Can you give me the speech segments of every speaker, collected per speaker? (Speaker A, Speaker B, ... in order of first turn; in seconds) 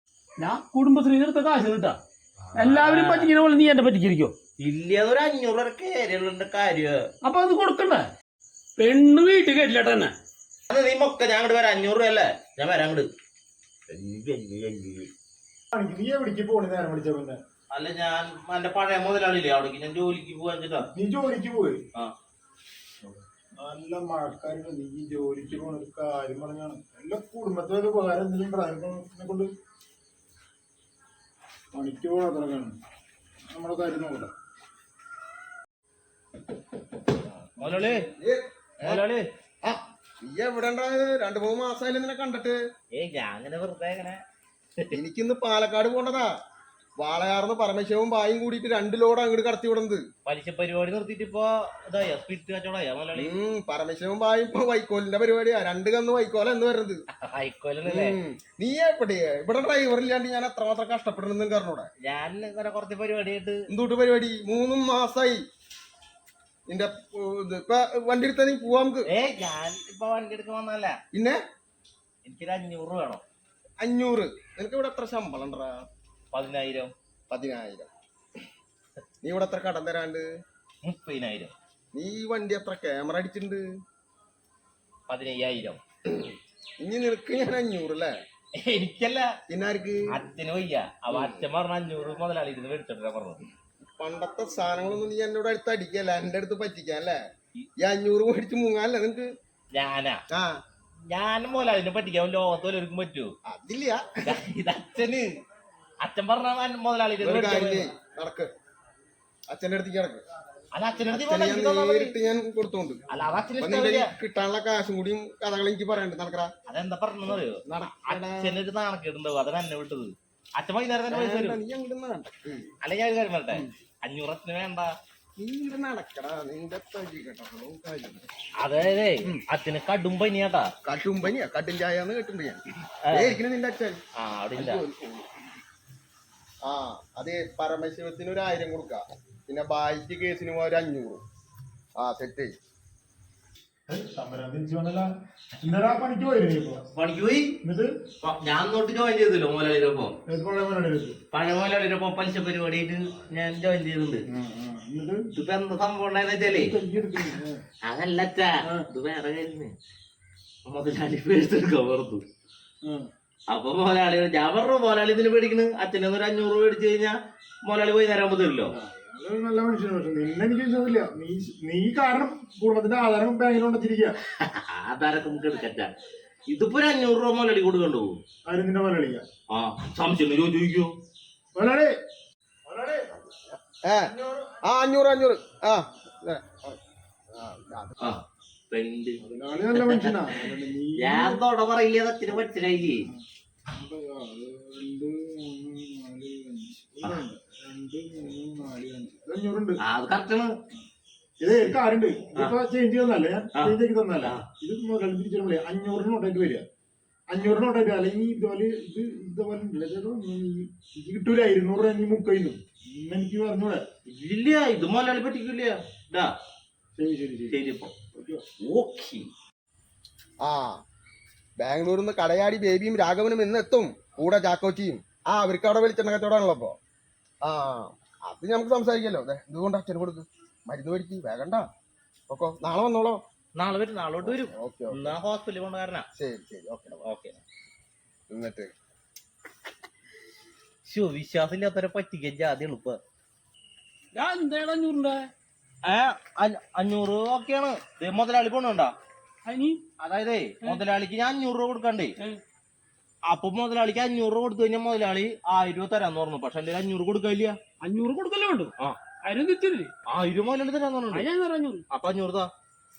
Speaker A: 0.4-2.0, 2.5-4.3, 7.2-8.1, 8.8-10.1, 244.1-245.3, 249.4-249.8, 257.8-258.7, 259.2-259.9, 261.1-261.8
Speaker B: 2.5-3.3, 4.6-7.1, 10.7-13.1, 13.9-15.1, 17.7-20.9, 37.5-38.0, 38.8-39.2, 42.9-44.2, 50.2-53.3, 57.1-58.2, 62.0-63.6, 69.1-71.0, 72.2-73.2, 76.3-76.9, 80.8-81.5, 85.1-85.8, 88.6-89.3, 90.1-93.4, 99.7-100.2, 101.1-103.3, 104.2-105.3, 106.0-107.8, 110.7-112.1, 113.1-114.1, 116.7-121.6, 122.8-124.9, 128.6-130.7, 133.0-133.4, 134.2-134.8, 146.9-147.6, 148.2-150.2, 151.3-154.2, 155.3-156.7, 157.8-159.7, 160.7-162.2, 163.5-167.1, 167.7-168.8, 174.4-175.9, 176.5-178.2, 179.5-180.9, 188.0-189.2, 189.7-190.3, 191.0-193.1, 199.8-200.5, 203.5-204.4, 214.1-216.3, 217.5-217.9, 218.6-219.3, 233.6-236.1, 237.0-237.4, 240.8-243.0, 245.8-248.9, 250.0-252.1, 253.3-257.6, 260.1-261.2, 261.9-262.5
Speaker C: 15.7-17.4, 20.9-21.8, 23.6-29.5, 31.7-32.7, 33.5-34.3, 143.9-145.1, 145.6-146.8, 147.6-147.9, 150.3-151.2, 154.3-155.2, 156.4-157.6, 162.8-163.1, 168.7-174.2, 178.5-179.2, 181.5-181.9, 182.7-183.1, 189.2-191.4, 193.1-199.8, 201.4-206.6, 207.3-213.8, 216.9-217.6, 218.1-218.4
Speaker D: 37.6-39.0, 39.6-42.6, 44.9-46.3, 47.0-50.0, 53.1-57.0, 57.9-61.9, 63.7-65.4, 66.7-69.1, 71.1-71.4, 73.8-75.8, 77.3-77.9, 79.2-80.2, 81.9-83.6, 86.1-88.1, 89.5-90.0, 91.1-91.4, 93.9-97.2, 97.8-99.3, 103.5-104.1, 107.2-108.5, 109.5-110.2, 111.1-113.0, 113.6-116.5, 117.3-118.6, 121.1-122.7, 125.4-128.3, 130.8-134.0, 134.6-135.3, 136.6-141.2, 142.0-142.5, 183.8-186.8, 187.3-188.2, 220.4-220.8, 221.6-226.8, 227.4-231.7, 232.3-233.2, 234.2-235.2, 236.2-237.0, 238.3-238.7